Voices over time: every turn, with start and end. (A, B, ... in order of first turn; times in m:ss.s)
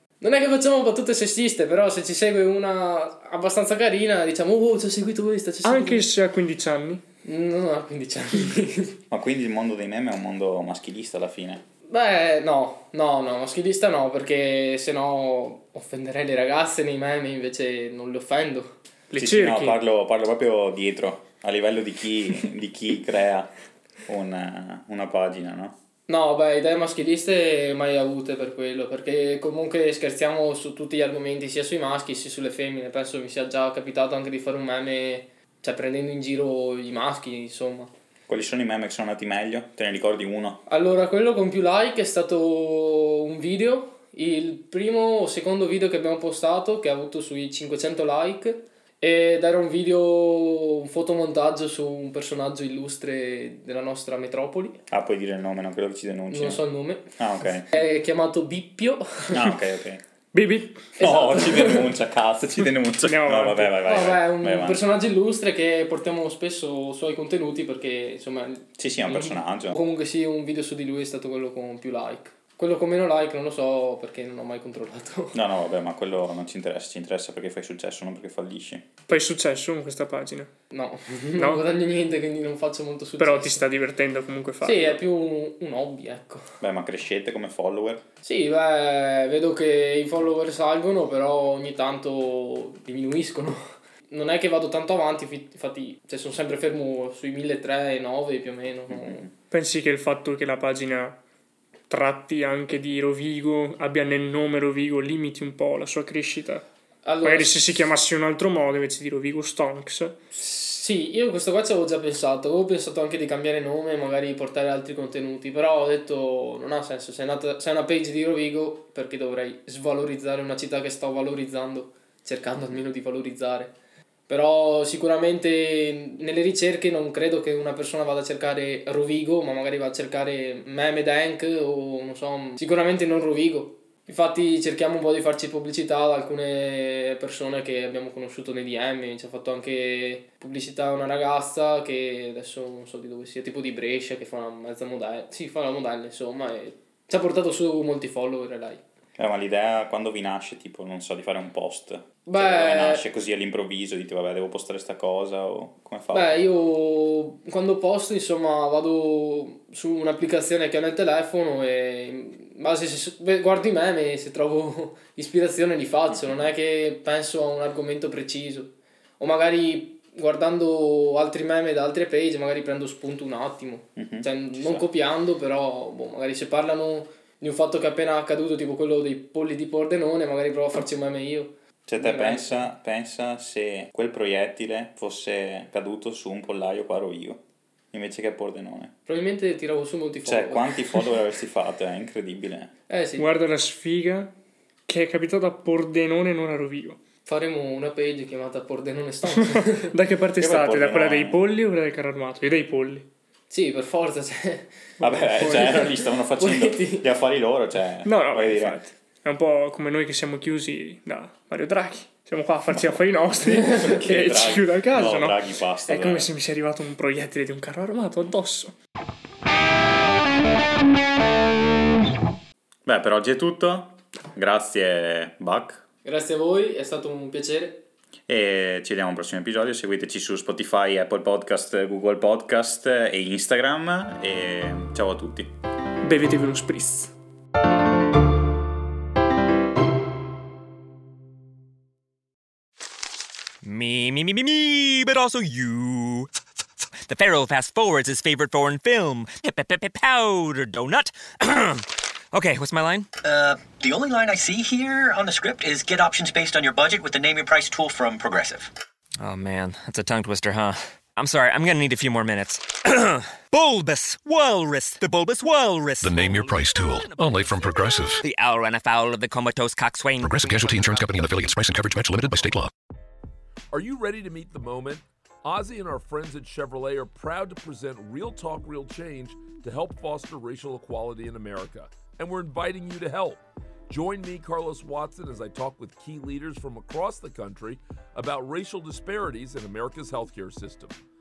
0:00.2-0:06.1 A
0:05.6-0:07.0 B
0:07.2-0:09.0 A
0:09.1-0:11.6 C
0:11.9-0:18.7 A
0:19.1-0:19.8 B
0:19.2-0:23.5 C
0:24.1-0:25.8 C
0:26.1-0:37.9 A
0:38.3-0:40.6 C
0:40.7-0:54.8 A
0:54.9-0:56.6 C
0:56.3-0:59.5 A
0:57.2-0:57.7 C
0:59.3-1:00.0 C
1:00.3-1:00.9 B
1:01.0-1:01.9 A
1:01.0-1:04.8 C
1:03.0-1:03.8 B
1:03.8-1:15.4 A
1:08.8-1:09.8 C
1:15.3-1:18.8 C
1:19.1-1:20.5 B
1:20.7-1:23.6 A
1:21.4-1:21.6 B
1:23.2-1:25.0 B
1:24.6-1:26.5 A
1:26.6-1:28.0 C
1:28.2-1:39.3 A
1:39.5-1:41.2 B
1:41.9-1:46.6 B
1:47.0-1:47.9 A
1:47.2-1:50.2 B
1:50.4-2:03.8 A
2:04.3-2:28.8 A
2:29.2-2:36.4 C
2:32.3-2:33.1 A
2:36.1-3:02.7 A
2:54.0-2:54.8 C
3:01.9-3:07.4 C
3:07.9-3:08.9 C
3:09.1-3:10.8 A
3:10.3-3:12.7 C
3:12.9-3:13.3 A
3:13.2-3:14.3 B
3:14.9-3:17.0 B
3:17.3-3:19.9 A
3:19.3-3:23.1 B
3:20.4-3:21.4 C
3:23.5-3:27.1 A
3:25.0-3:28.8 C
3:28.0-3:38.7 B
3:32.7-3:36.3 C
3:33.6-3:34.0 A
3:42.9-3:45.8 C
3:46.0-3:47.8 A
3:48.3-3:55.5 C
3:56.0-3:57.1 B
4:03.6-4:06.3 D
4:07.1-4:13.1 D
4:13.2-4:18.7 E
4:19.2-4:26.6 D
4:26.0-4:28.2 F
4:26.2-4:28.2 G
4:28.2-4:31.3 D
4:30.2-4:32.7 F
4:33.7-4:51.0 G